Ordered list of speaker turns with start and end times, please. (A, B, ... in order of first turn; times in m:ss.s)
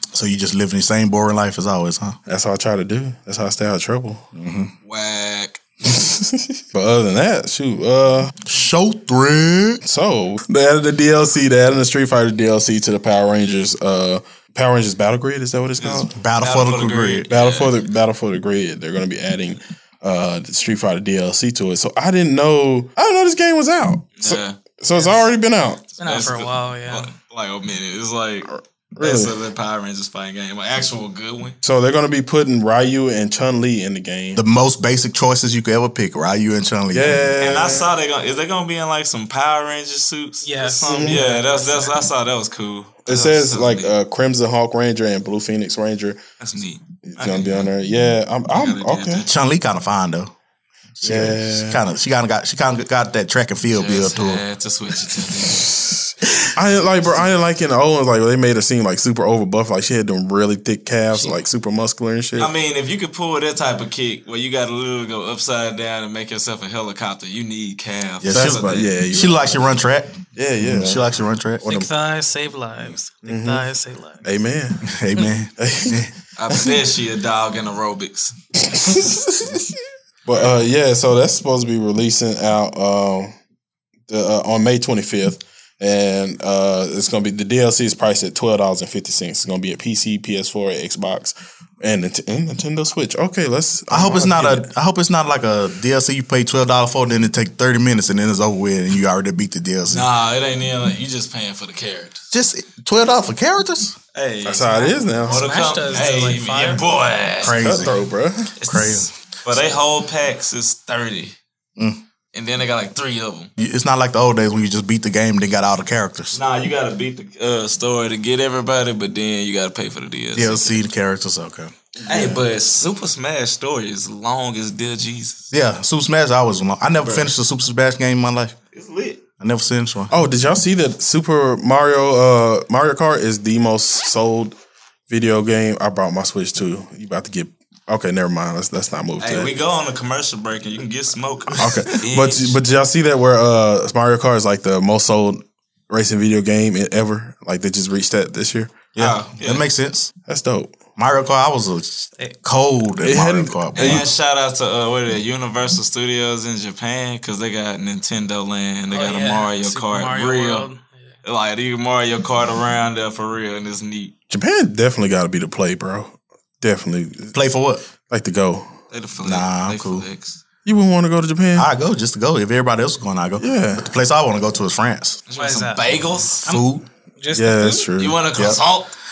0:00.1-0:02.2 A
0:02.3-0:04.2 B
0:04.3-0:04.7 A
0:04.8-0:05.6 C
0:05.9-0:08.3 B
0:08.4-0:09.8 A
0:09.8-0:16.1 B
0:15.8-0:17.8 C
0:16.2-0:17.3 A
0:17.3-0:25.8 B
0:24.2-0:24.6 C
0:26.0-0:31.6 C
0:26.0-0:27.1 D
0:28.4-0:29.3 B
0:31.6-0:34.4 B
0:34.3-0:37.2 A
0:36.9-0:37.9 B
0:37.4-0:43.9 C
0:40.4-0:42.1 D
0:40.8-0:41.2 B
0:43.0-0:46.2 B
0:46.4-0:47.7 C
0:47.0-0:49.3 B
0:48.5-0:49.3 C
0:49.2-0:50.3 A
0:51.0-0:54.4 A
0:51.0-0:51.8 B
0:53.7-0:55.7 C
0:55.6-1:02.5 B
1:02.4-1:08.9 C
1:08.2-1:11.6 A
1:08.3-1:09.7 B
1:10.3-1:11.1 B
1:11.6-1:11.9 B
1:11.6-1:14.2 D
1:13.2-1:13.6 B
1:14.2-1:15.0 B
1:14.8-1:16.1 A
1:15.6-1:16.8 B
1:16.4-1:18.4 C
1:18.6-1:19.7 B
1:20.3-1:23.3 B
1:24.1-1:34.7 B
1:33.9-1:40.0 A
1:39.9-1:42.2 C
1:42.3-1:44.0 A
1:44.1-1:47.9 C
1:44.4-1:45.5 B
1:44.7-1:46.8 D
1:47.4-1:48.0 A
1:47.5-1:48.6 B
1:48.6-1:51.4 C
1:48.7-1:49.1 A
1:51.8-1:52.0 A
1:52.3-1:53.5 C
1:53.6-1:56.4 A
1:56.3-2:00.8 C
2:00.3-2:02.4 A
2:02.1-2:05.5 C
2:05.5-2:08.6 A
2:07.0-2:07.3 C
2:08.7-2:09.2 C
2:09.4-2:10.1 A
2:10.1-2:14.6 B
2:15.1-2:19.5 B
2:19.2-2:22.6 C
2:21.5-2:21.9 A
2:21.6-2:28.8 B
2:28.9-2:30.1 A
2:29.0-2:29.6 C
2:30.3-2:30.8 B
2:31.0-2:34.0 A
2:33.0-2:34.1 B
2:33.7-2:40.7 C
2:38.9-2:41.2 D
2:41.2-2:44.1 C
2:44.3-2:47.4 B
2:47.3-2:47.8 A
2:48.1-2:48.8 B
2:48.9-2:50.4 C
2:49.2-2:50.0 A
2:50.6-2:51.7 B
2:51.6-2:55.2 A
2:53.4-2:53.9 B
2:55.3-2:56.4 C
2:55.4-2:55.9 D
2:56.4-2:56.8 A
2:57.2-2:57.9 D
2:57.3-2:58.2 B
2:58.0-2:58.9 C
2:58.4-2:58.6 A